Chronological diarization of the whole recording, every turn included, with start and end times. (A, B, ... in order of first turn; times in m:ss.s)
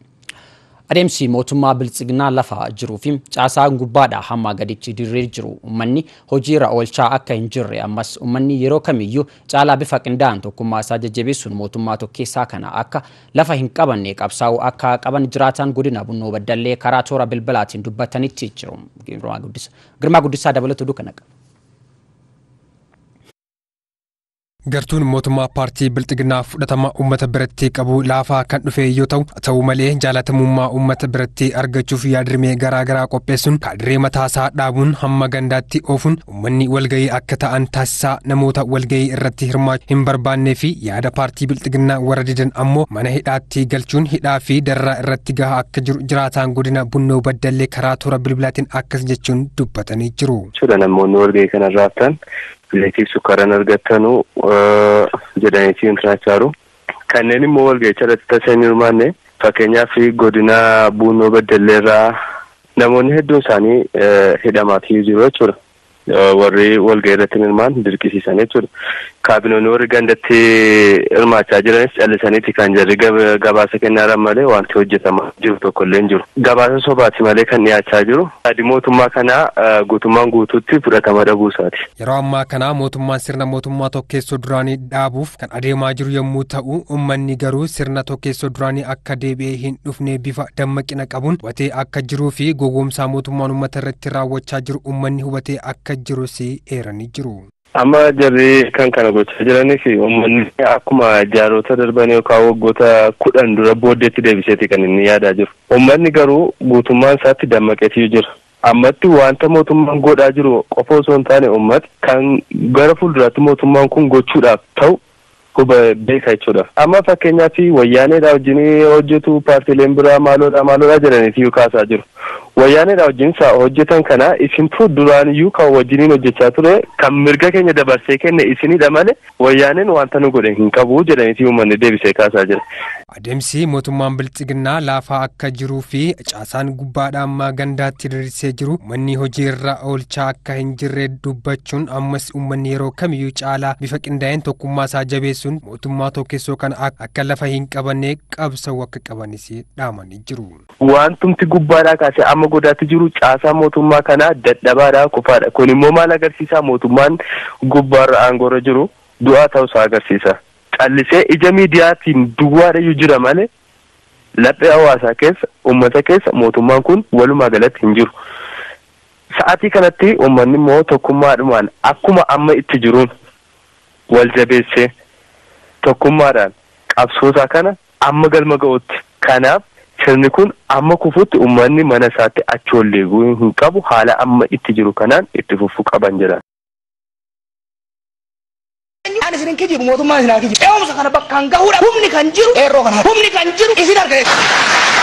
0:00.9-0:21.2 A
0:24.7-0:50.5 B
0:50.5-0:52.2 C
0:52.7-0:56.5 C
0:57.1-1:02.2 C
1:02.8-1:05.6 C
1:06.1-1:08.7 C
1:09.2-1:21.8 C
1:22.0-1:37.4 B
1:37.8-1:55.0 C
1:55.5-2:02.0 C
2:02.6-2:12.6 C
2:13.1-2:30.6 B
2:30.8-2:43.5 C
2:44.4-2:48.1 C
2:49.4-2:53.1 C
2:54.1-2:54.9 C
2:55.8-3:06.4 C
3:09.2-3:14.2 D